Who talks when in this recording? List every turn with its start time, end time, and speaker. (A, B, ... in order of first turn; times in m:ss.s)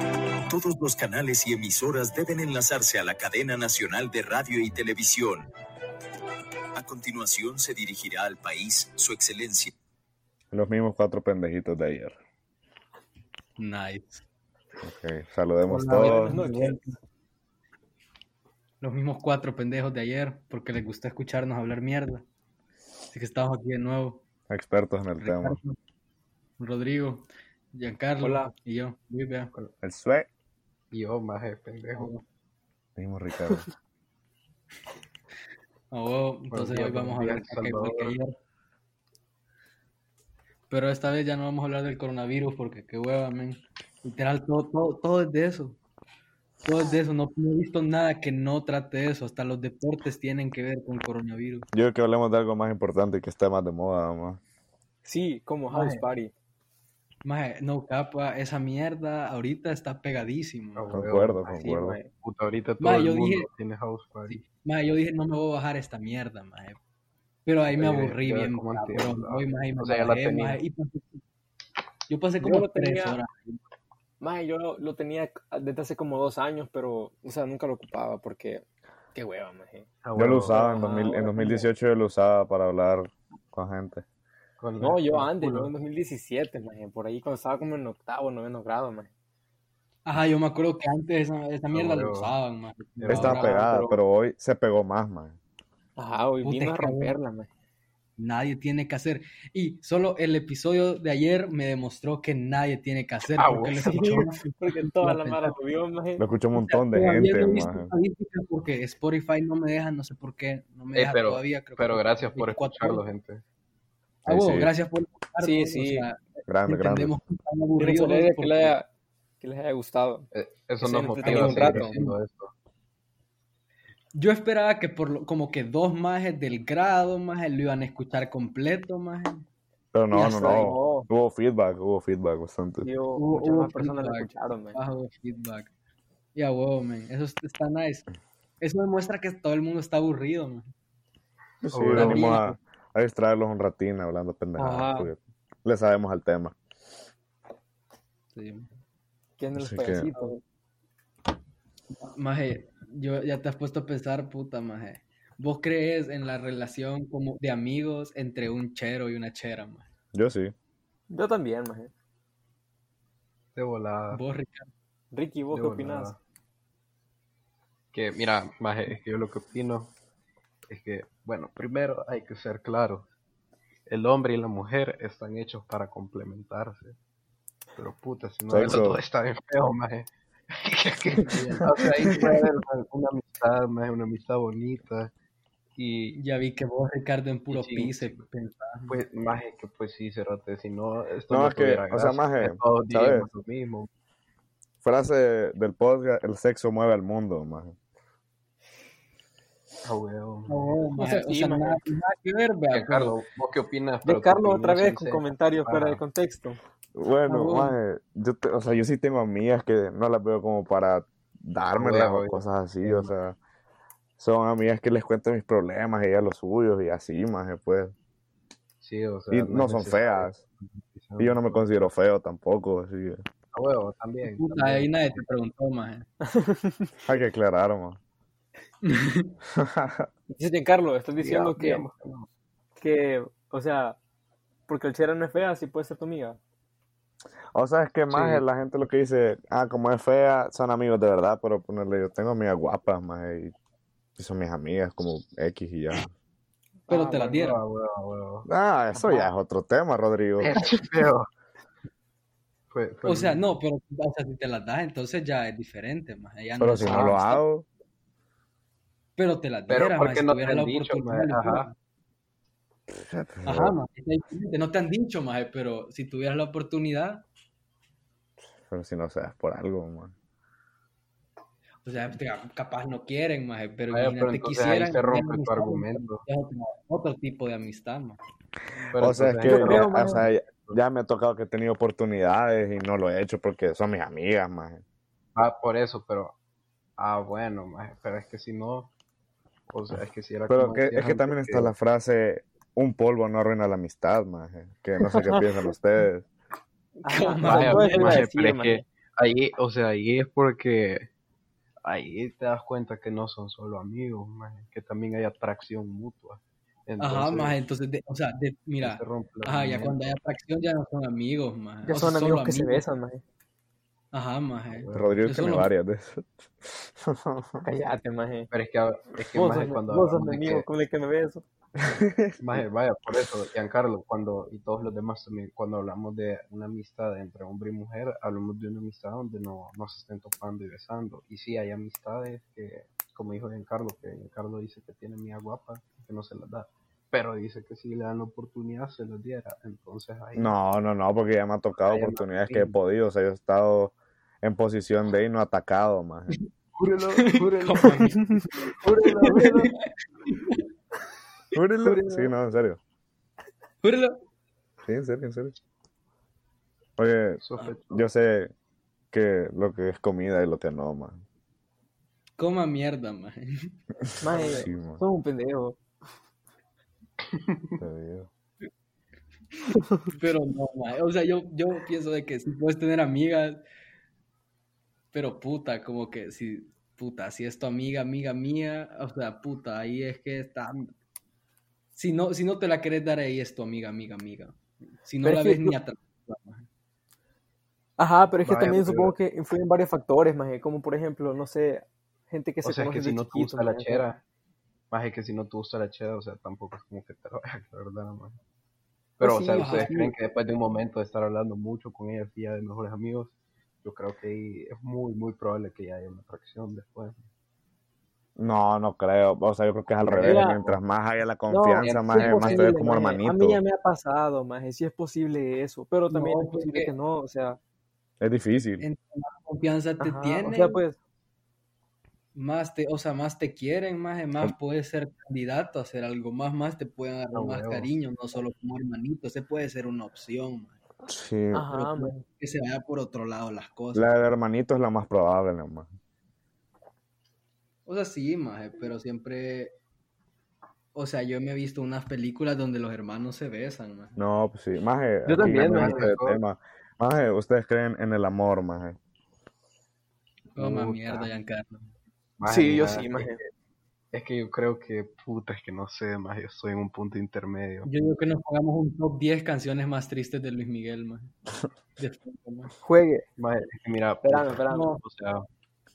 0:00.5-0:05.5 A
0:06.8-0:09.7 A
0:10.5-0:12.2 B
0:13.6-0:14.2 C
0:14.8-0:16.4 B
0:15.7-0:17.0 C
0:15.9-0:16.8 D
0:18.8-0:22.2 C
0:23.1-0:24.2 C
0:24.5-0:25.6 B
0:25.2-0:25.8 C
0:26.6-0:29.5 C
0:28.2-0:28.5 D
0:29.8-0:30.3 B
0:30.9-0:32.1 E
0:33.0-0:33.7 B
0:35.9-0:38.4 C
0:36.5-0:38.2 E
0:40.7-0:45.8 C
0:46.6-0:51.7 C
0:51.7-0:54.4 B
0:55.0-0:56.3 D
0:55.7-0:56.1 C
0:57.2-1:00.9 C
1:00.8-1:01.6 E
1:00.9-1:02.0 B
1:01.6-1:02.1 D
1:02.2-1:04.4 E
1:02.8-1:03.5 C
1:04.3-1:06.8 C
1:07.4-1:11.2 C
1:07.7-1:10.6 E
1:12.1-1:13.6 C
1:12.4-1:13.2 D
1:14.2-1:19.9 D
1:20.0-1:21.6 E
1:20.2-1:24.0 B
1:20.6-1:21.5 D
1:24.6-1:25.7 E
1:24.8-1:29.1 D
1:30.1-1:33.6 C
1:31.7-1:32.4 E
1:33.0-1:33.7 E
1:33.1-1:35.4 B
1:33.5-1:34.0 D
1:36.0-1:37.5 D
1:36.4-1:37.2 C
1:38.2-1:45.6 C
1:43.3-1:44.3 E
1:43.8-1:46.2 D
1:46.2-1:47.9 B
1:46.6-1:53.0 C
1:50.9-1:53.4 E
1:54.2-1:58.7 C
1:54.3-1:54.7 B
1:55.4-1:56.1 D
1:56.5-1:57.2 B
1:57.8-1:58.9 D
1:59.4-2:00.3 D
2:00.3-2:02.5 E
2:00.8-2:02.0 D
2:01.2-2:02.1 C
2:04.1-2:09.4 C
2:09.9-2:12.9 B
2:10.1-2:11.1 D
2:12.8-2:14.8 D
2:13.2-2:15.7 C
2:16.4-2:18.0 C
2:18.6-2:20.7 C
2:21.6-2:26.6 B
2:21.7-2:22.4 E
2:21.9-2:22.6 C
2:24.6-2:25.1 D
2:28.3-2:28.7 C
2:29.4-2:30.4 D
2:29.5-2:30.1 B
2:32.0-2:39.9 C
2:40.1-2:40.5 B
2:41.1-2:41.9 D
2:43.5-2:44.2 E
2:44.1-2:44.7 C
2:45.1-2:46.1 D
2:45.5-2:46.2 E
2:47.9-2:49.9 E
2:50.7-2:53.1 E
2:53.9-2:57.0 E
2:57.8-3:05.1 E
2:58.5-2:59.0 B
3:05.8-3:06.2 E
3:06.2-3:09.0 C
3:07.5-3:08.2 E
3:08.9-3:13.9 E
3:11.3-3:13.3 B
3:14.8-3:17.8 B
3:19.8-3:20.8 E
3:20.5-3:23.2 C
3:21.0-3:21.8 D
3:22.7-3:26.0 E
3:24.0-3:26.6 D
3:27.0-3:33.4 B
3:27.3-3:27.8 C
3:31.7-3:33.1 E
3:34.2-3:37.9 B
3:38.8-3:41.7 E
3:39.3-3:40.4 B
3:41.2-3:43.2 B
3:43.5-3:45.2 E
3:44.2-3:46.1 C
3:46.4-3:46.9 D
3:47.0-3:48.0 B
3:48.8-3:49.3 C
3:49.6-3:50.1 B
3:50.3-3:51.8 D
3:51.2-3:52.3 E
3:52.8-3:54.0 D
3:54.7-3:56.4 D
3:57.6-4:03.5 B
3:58.1-3:58.4 D
4:04.2-4:06.1 B
4:06.8-4:07.4 D
4:06.9-4:07.6 C
4:07.2-4:08.5 E
4:08.5-4:10.5 B
4:09.0-4:09.3 D
4:10.4-4:11.3 E
4:12.7-4:13.4 E
4:13.0-4:17.4 C
4:16.6-4:17.7 B
4:19.2-4:21.7 C
4:19.7-4:21.7 E
4:22.9-4:23.8 B
4:23.4-4:27.2 C
4:28.6-4:30.1 B
4:31.8-4:38.2 C
4:33.9-4:36.2 E
4:38.8-4:40.8 E
4:39.0-4:44.8 B
4:39.4-4:40.3 D
4:45.4-4:46.4 E
4:47.0-4:48.9 E
4:49.7-4:51.7 E
4:50.5-4:56.3 B
4:55.1-4:55.4 D
4:57.0-4:58.8 D
4:57.1-4:58.2 C
4:57.4-5:01.1 E
5:01.8-5:07.6 E
5:07.0-5:12.8 C
5:08.8-5:10.2 E
5:11.8-5:13.2 D
5:14.1-5:15.7 C
5:14.8-5:15.2 E
5:14.9-5:17.6 B
5:17.6-5:18.5 D
5:18.5-5:20.6 E
5:19.3-5:21.4 D
5:21.8-5:22.6 B
5:22.4-5:40.6 E
5:40.4-5:46.3 B
5:41.9-5:42.8 E
5:46.8-5:49.7 E
5:47.3-5:48.1 C
5:47.9-5:49.7 D
5:49.3-5:50.6 C
5:51.5-5:52.8 B
5:53.8-5:54.2 C
5:54.9-5:55.6 B
5:57.0-5:58.5 B
5:57.4-5:58.0 E
5:59.1-6:01.2 B
6:02.4-6:03.7 C
6:04.2-6:05.8 D
6:04.2-6:05.0 B
6:07.4-6:07.8 E
6:07.8-6:08.3 B
6:10.1-6:13.6 C
6:15.1-6:20.9 C
6:21.9-6:26.7 C
6:25.2-6:25.8 D
6:28.0-6:34.0 D
6:28.4-6:29.2 E
6:32.6-6:34.2 E
6:34.9-6:38.4 E
6:39.2-6:43.3 E
6:39.2-6:39.9 D
6:39.5-6:40.2 C
6:43.8-6:47.2 E
6:48.4-6:53.6 B
6:50.0-6:50.8 E
6:50.2-6:50.6 D
6:51.5-6:57.6 D
6:51.8-6:52.7 E
6:56.1-6:56.9 C
6:58.2-6:58.9 B
6:58.8-7:00.8 C
7:00.0-7:01.0 D
7:02.4-7:10.8 C
7:07.3-7:07.9 E
7:11.1-7:11.6 B
7:11.5-7:12.2 D
7:11.7-7:14.2 C
7:13.9-7:15.9 B
7:17.9-7:19.7 C
7:20.9-7:24.2 C
7:24.2-7:29.0 B
7:25.3-7:26.2 D
7:25.4-7:26.4 E
7:30.6-7:31.3 E
7:30.6-7:31.9 C
7:32.4-7:33.5 E
7:32.5-7:33.4 D
7:34.1-7:37.9 E
7:37.8-7:41.3 C
7:42.0-7:42.7 C
7:42.8-7:43.2 D
7:43.4-7:45.5 E
7:44.2-7:44.9 D
7:44.7-7:45.0 C